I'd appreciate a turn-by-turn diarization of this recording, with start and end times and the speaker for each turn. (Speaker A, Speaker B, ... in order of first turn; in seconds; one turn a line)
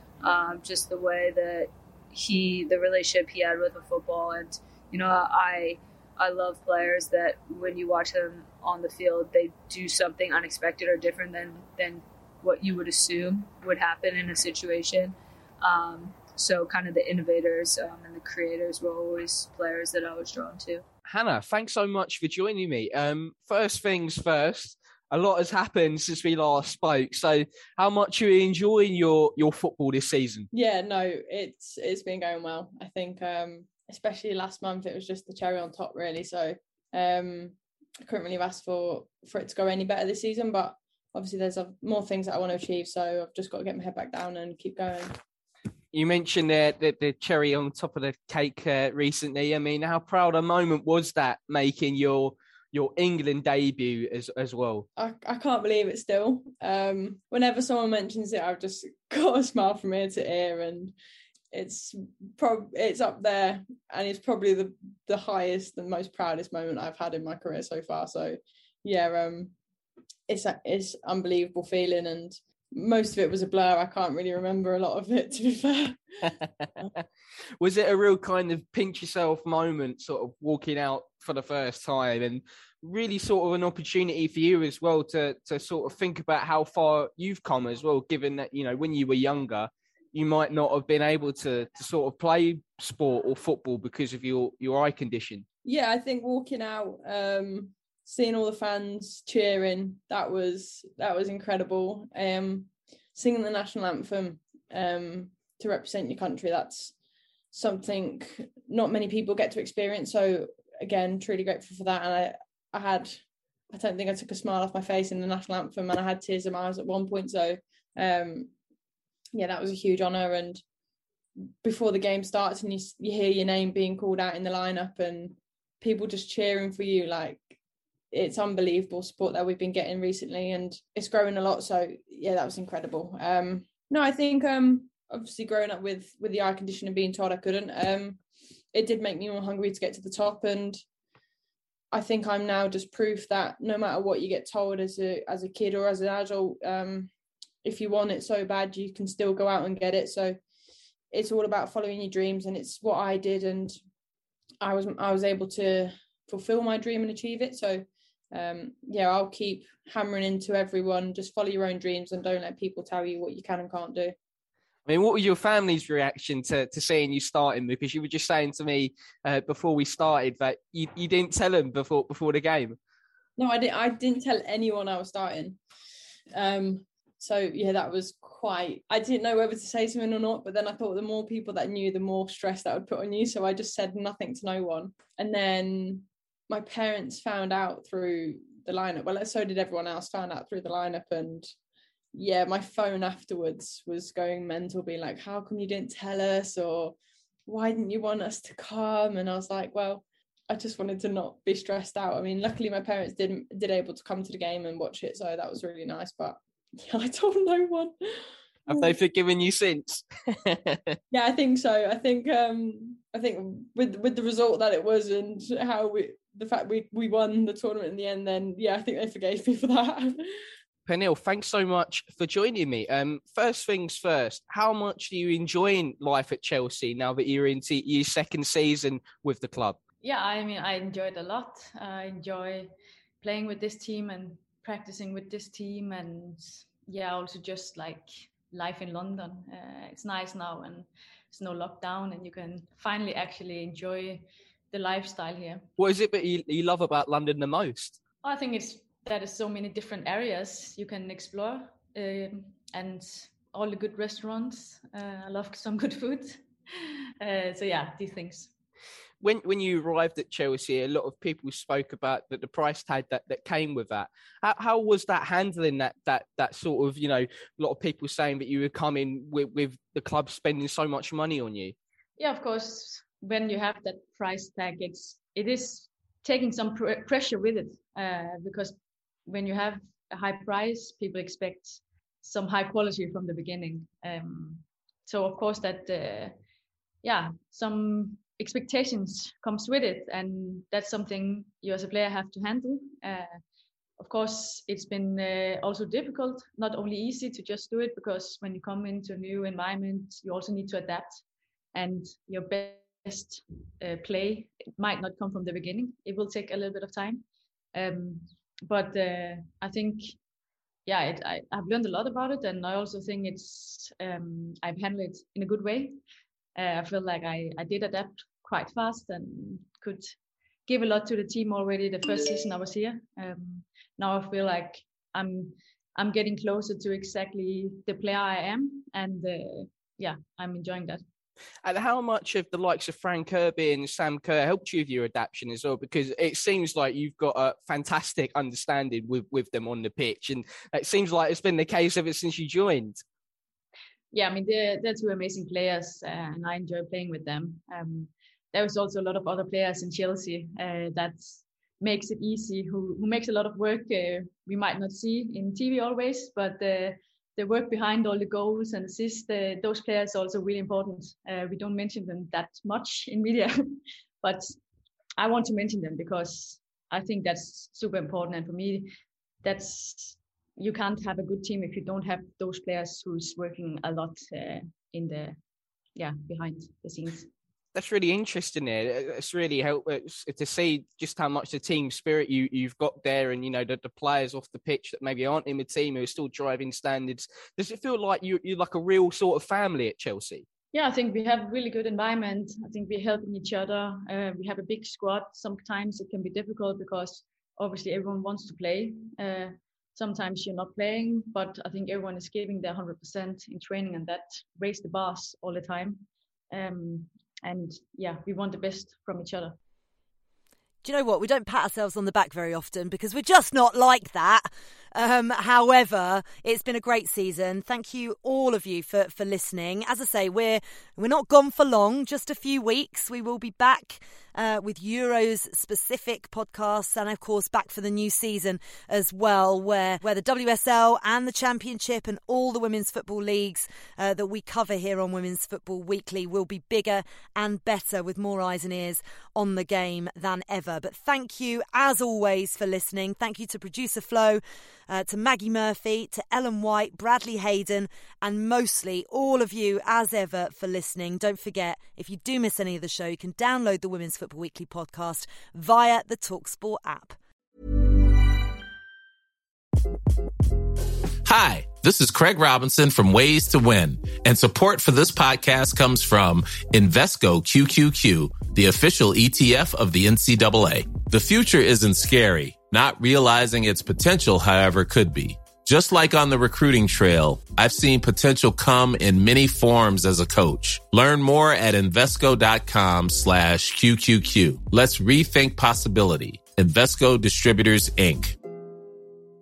Speaker A: 0.2-20.8
Speaker B: 21.0-30.5
Speaker C: 30.5-45.1
Speaker B: 45.9-54.9
Speaker C: 55.0-60.9
Speaker C: 61.5-69.5
Speaker C: 70.3-76.0
Speaker B: 77.6-95.4
Speaker C: 95.6-106.9
Speaker C: 107.5-118.5
Speaker C: 119.3-120.6
Speaker C: 121.6-127.5
Speaker C: 128.1-138.2
Speaker C: 138.7-140.8
Speaker C: 141.9-147.1
Speaker C: 147.6-150.4
Speaker C: 151.1-153.8
Speaker C: 154.6-164.1
Speaker B: 164.8-172.8
Speaker C: 173.4-175.6
Speaker C: 176.3-191.5
Speaker C: 192.1-207.9
Speaker B: 208.7-210.9
Speaker C: 211.1-220.2
Speaker B: 220.8-229.8
Speaker D: 230.0-245.7
Speaker B: 245.8-248.0
Speaker D: 248.2-258.5
Speaker B: 259.2-271.7
Speaker D: 272.2-286.4
Speaker D: 287.0-293.4
Speaker D: 294.0-301.2
Speaker D: 301.7-307.2
Speaker D: 307.7-310.1
Speaker D: 310.8-316.0
Speaker D: 316.6-320.1
Speaker D: 320.7-331.0
Speaker B: 331.6-343.0
Speaker D: 344.1-364.5
Speaker D: 365.2-368.9
Speaker D: 369.4-375.4
Speaker D: 375.9-377.3
Speaker B: 377.7-390.4
Speaker D: 390.7-409.6
Speaker E: 410.8-457.2
Speaker F: 461.2-488.4